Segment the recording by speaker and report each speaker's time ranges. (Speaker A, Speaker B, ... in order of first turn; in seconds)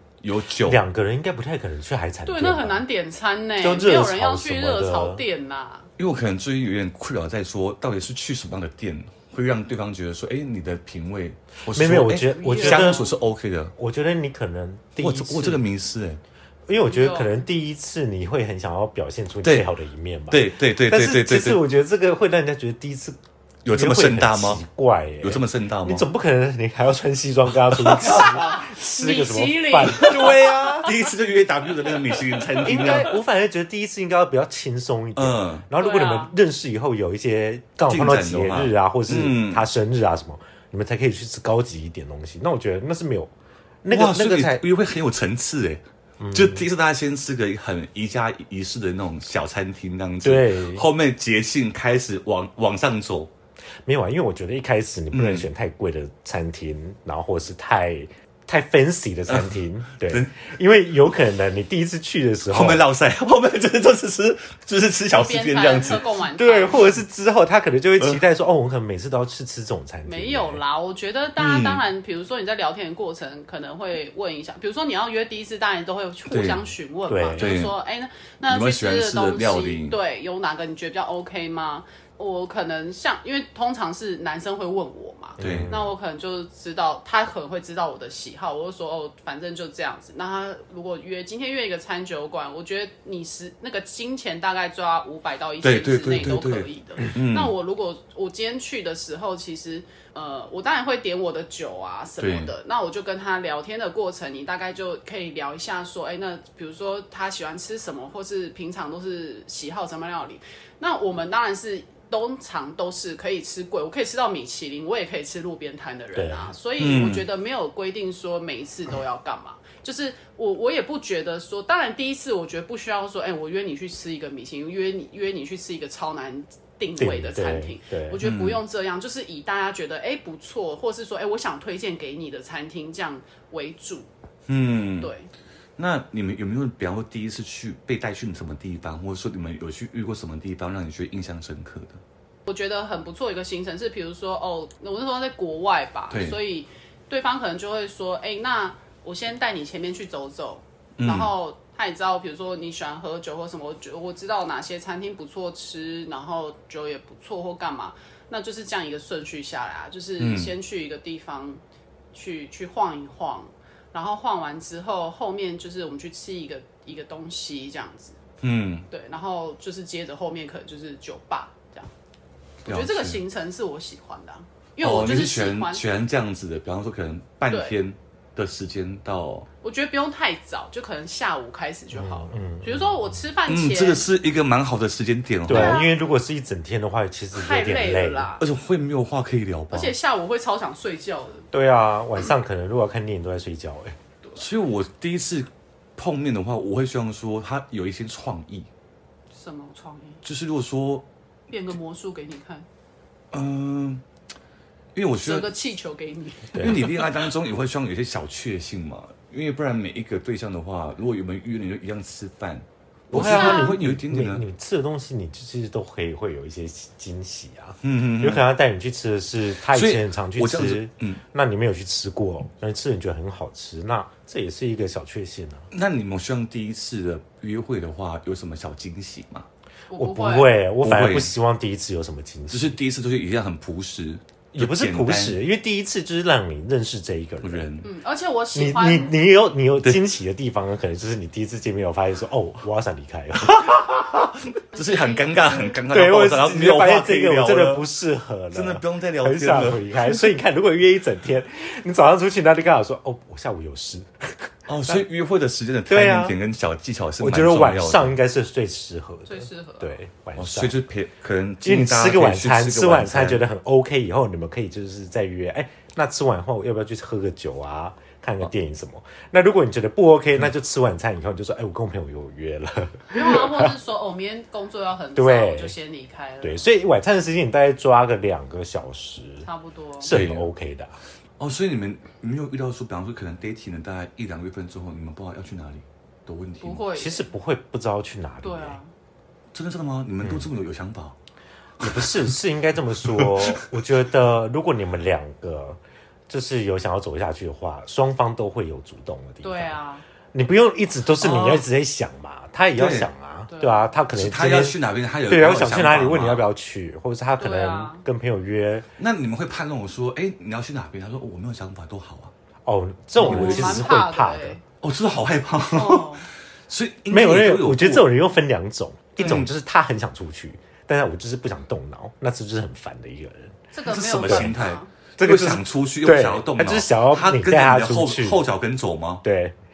Speaker A: 0.2-0.8, 6.0-13.7, 15.0-16.2, 19.4-19.7, 20.3-21.6, 23.6-24.6, 25.2-26.1, 27.7-28.3, 29.9-33.2, 35.2-35.6, 37.9-39.6, 43.9-53.3, 55.1-55.5, 59.3-60.4, 62.5-66.0, 71.4-71.8, 76.3-76.6, 77.4-77.8, 78.5-80.0, 85.4-85.7, 95.6-97.5, 102.2-102.5, 116.8-117.2, 128.2-128.6, 134.5-135.1, 135.8-142.0, 146.1-146.4, 151.0-151.3, 160.2-160.5, 168.4-168.9, 172.7-173.2, 174.8-179.5, 183.5-185.8, 188.4-189.9, 194.4-198.7, 200.2-201.1, 203.3-204.0, 204.9-205.5, 206.6-214.4, 217.8-218.4, 219.7-221.2, 225.7-229.5, 230.8-231.3, 232.5-235.4, 237.4-237.9, 243.5-247.8, 248.5-250.2, 254.7-258.1, 260.4-263.4, 280.1-280.5, 281.4-286.8, 289.5-291.2, 291.8-292.2, 293.1-293.6, 301.2-301.6, 302.8-303.1, 304.1-306.4, 309.0-312.3, 313.2-313.8, 314.8-318.1, 319.2-319.5, 323.9-329.2
Speaker B: 0.6-2.8, 3.6-5.2, 11.7-13.1, 13.8-15.6, 16.7-31.0, 32.6-43.3, 43.8-44.6, 46.2-46.6, 50.2-50.9, 53.9-62.9, 66.4-70.6, 77.1-77.5, 85.4-85.9, 116.2-116.5, 127.0-128.2, 181.9-183.1, 185.5-188.3, 191.5-194.0, 206.6-206.8, 213.1-225.7, 230.0-232.8, 234.5-237.7, 238.5-244.0, 245.9-255.0, 255.9-256.4, 257.2-260.7, 261.6-273.7, 275.1-275.8, 276.4-279.5, 280.0-281.0, 286.9-288.8, 290.2-290.5, 291.8-299.8, 300.3-308.9, 312.6-314.6, 317.1-323.6, 324.2-324.6, 325.2-328.4, 329.2-329.6
Speaker C: 2.3-5.9, 12.2-13.2, 16.9-17.4, 28.1-30.6, 35.8-36.4, 65.1-67.0, 70.1-134.1, 135.0-135.3, 142.5-161.6, 162.1-168.2, 168.9-171.9, 172.6-175.8, 177.5-177.8, 179.6-184.1, 185.5-185.9, 187.3-188.5, 189.7-191.5, 199.3-200.2, 201.5-202.7, 205.2-207.1, 213.1-213.8, 229.9-230.6, 237.8-239.2, 244.7-245.8, 259.3-260.0, 273.1-276.6, 279.4-280.1, 286.6-287.3, 288.4-288.9, 299.4-300.1, 303.5-303.8, 307.4-308.0, 313.2-314.6, 315.7-316.3, 323.7-324.9